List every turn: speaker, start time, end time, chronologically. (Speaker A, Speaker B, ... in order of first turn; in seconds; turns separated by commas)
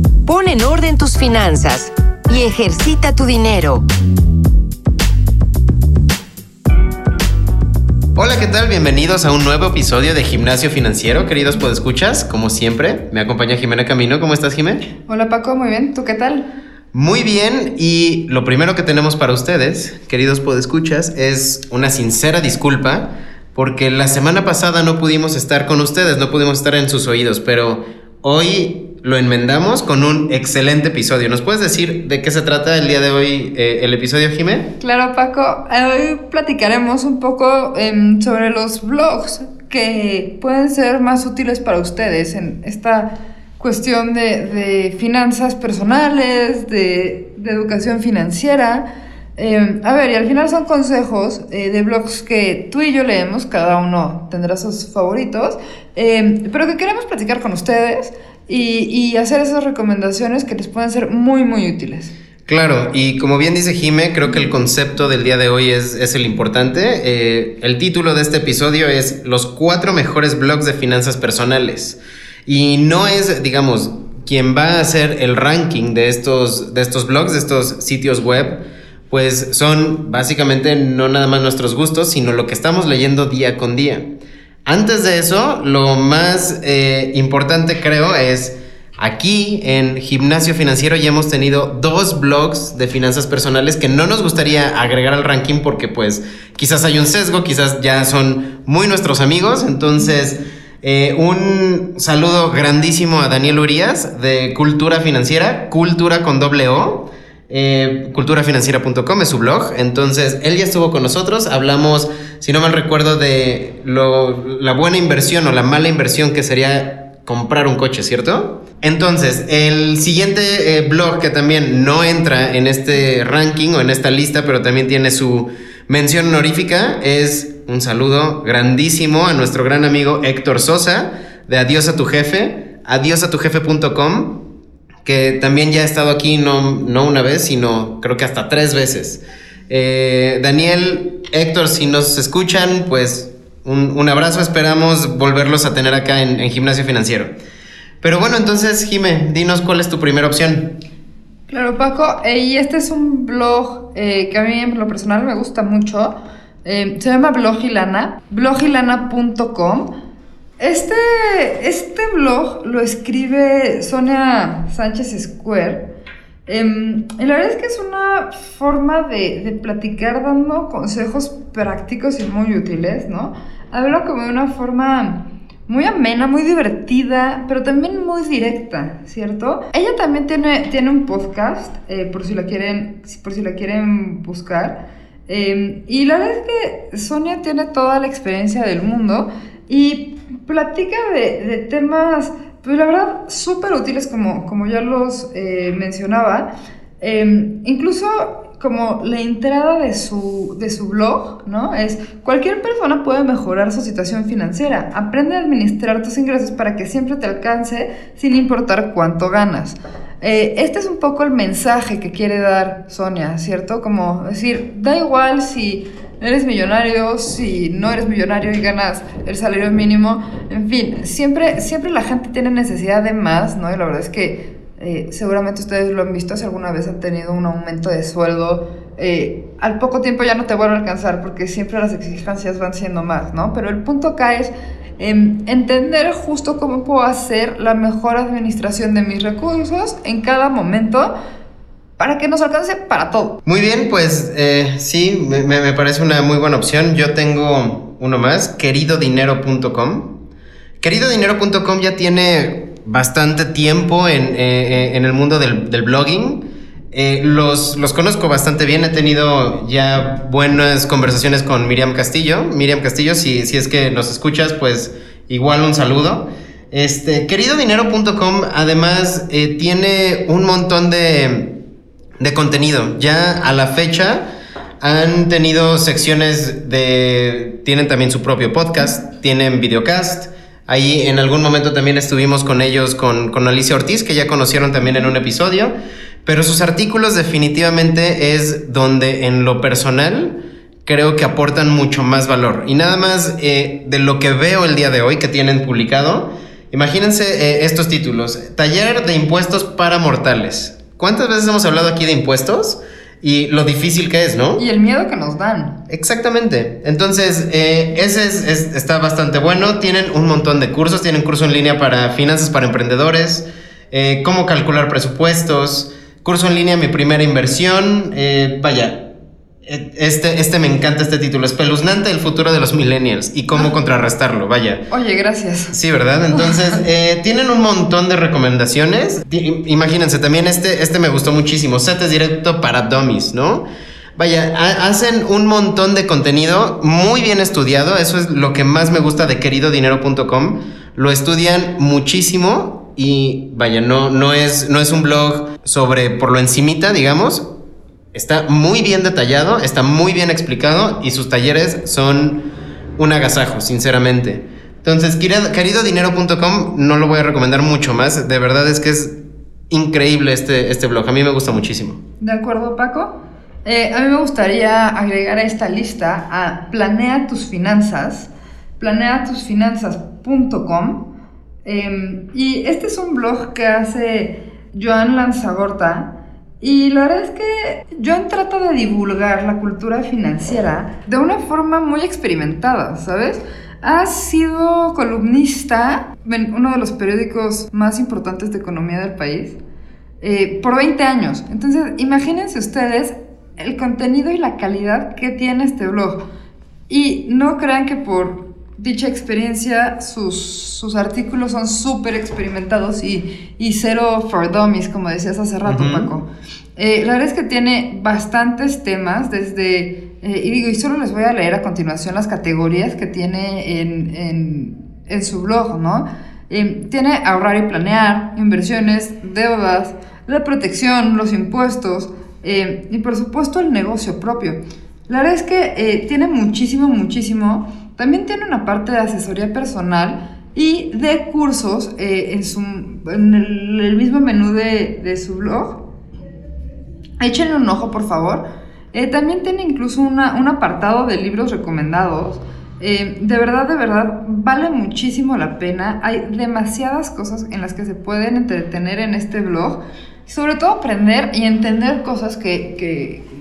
Speaker A: 0.2-3.9, Speaker B: 8.2-14.9, Speaker C: 15.1-16.5, Speaker B: 16.9-34.7, Speaker C: 34.8-48.8, Speaker C: 49.4-62.1, Speaker B: 62.5-84.1, Speaker B: 84.6-134.4, Speaker B: 135.0-147.3, Speaker B: 148.0-150.8, Speaker C: 151.5-159.9, Speaker C: 160.6-165.8, Speaker C: 166.5-196.5, Speaker C: 197.0-241.1, Speaker C: 242.0-243.4, Speaker B: 243.4-250.1, Speaker B: 250.8-271.6, Speaker B: 272.2-274.3, Speaker B: 274.8-304.6, Speaker C: 304.6-305.7, Speaker B: 305.9-319.1, Speaker B: 319.6-324.9, Speaker C: 324.9-325.8, Speaker B: 325.7-347.5, Speaker C: 326.3-326.6, Speaker B: 348.1-359.2, Speaker B: 359.7-362.0, Speaker C: 362.2-371.1, Speaker C: 371.6-389.6, Speaker C: 390.2-396.2, Speaker C: 396.9-435.8, Speaker B: 405.6-406.1, Speaker C: 437.2-453.2